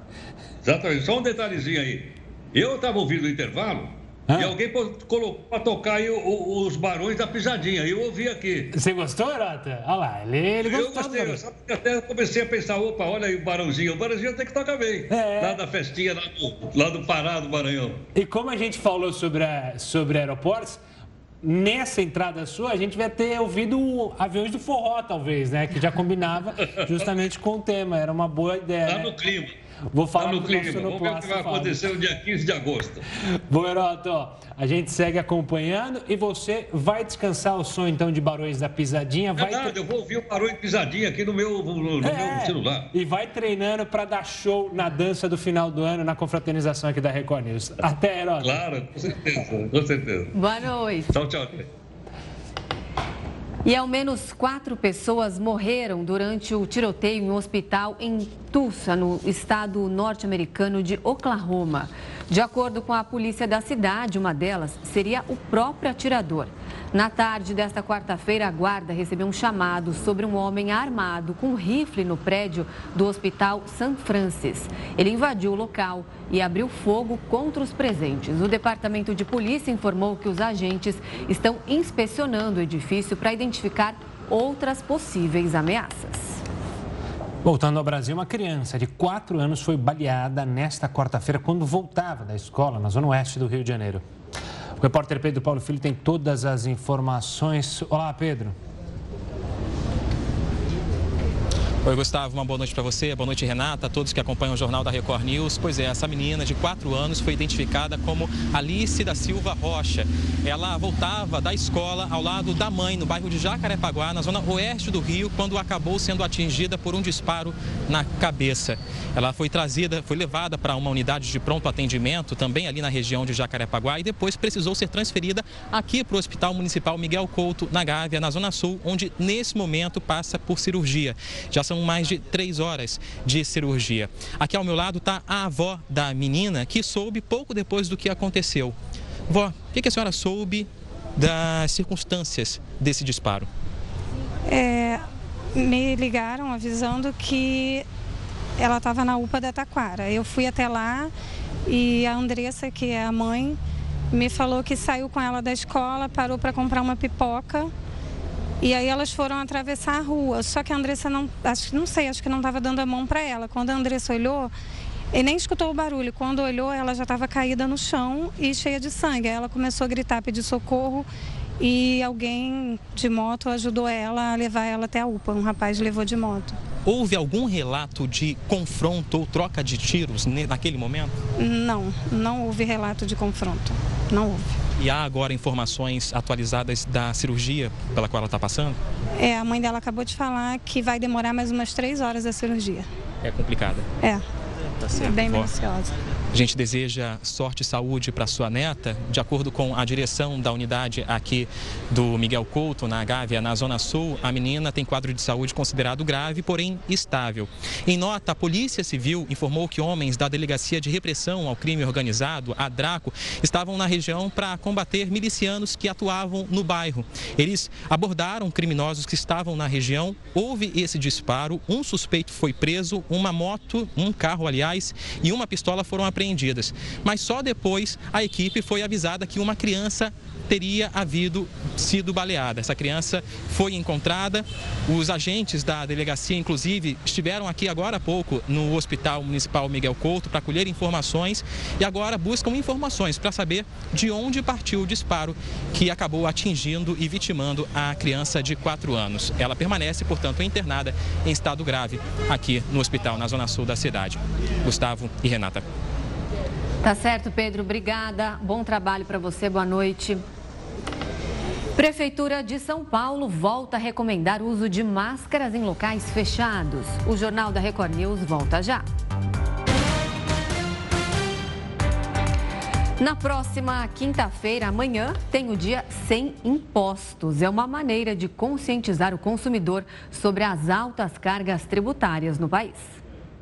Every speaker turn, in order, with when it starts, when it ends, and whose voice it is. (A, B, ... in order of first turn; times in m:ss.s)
0:00.6-0:08.7 A
0:04.3-0:04.6 B
0:08.7-0:11.4 B
0:10.6-0:18.0 A
0:15.1-0:15.6 B
0:18.1-0:20.8 B
0:21.4-0:29.1 B
0:28.8-0:29.5 A
0:29.9-0:31.9 B
0:30.2-0:33.0 A
0:33.3-0:39.8 B
0:39.4-0:42.9 A
0:42.0-0:48.6 B
0:48.4-0:50.3 A
0:50.3-0:51.1 C
0:51.1-0:51.7 A
0:53.6-1:26.4 C
1:27.4-1:34.0 B
1:34.8-1:38.5 B
1:41.8-2:18.8 D
2:19.3-2:23.5 D
2:24.5-2:27.8 E
2:28.6-2:31.1 E
2:31.7-2:33.6 E
2:34.1-2:37.7 E
2:38.6-2:44.5 E
2:45.1-2:51.1 E
2:51.6-2:56.6 E
2:56.8-3:01.1 D
3:01.4-3:04.6 E
3:04.8-3:08.8 D
3:09.2-3:12.9 E
3:13.2-3:13.9 D
3:14.9-3:15.5 D
3:14.9-3:15.9 E
3:16.3-4:15.6 D
4:16.8-4:20.2 C
4:21.8-4:28.8 C
4:33.0-4:42.9 C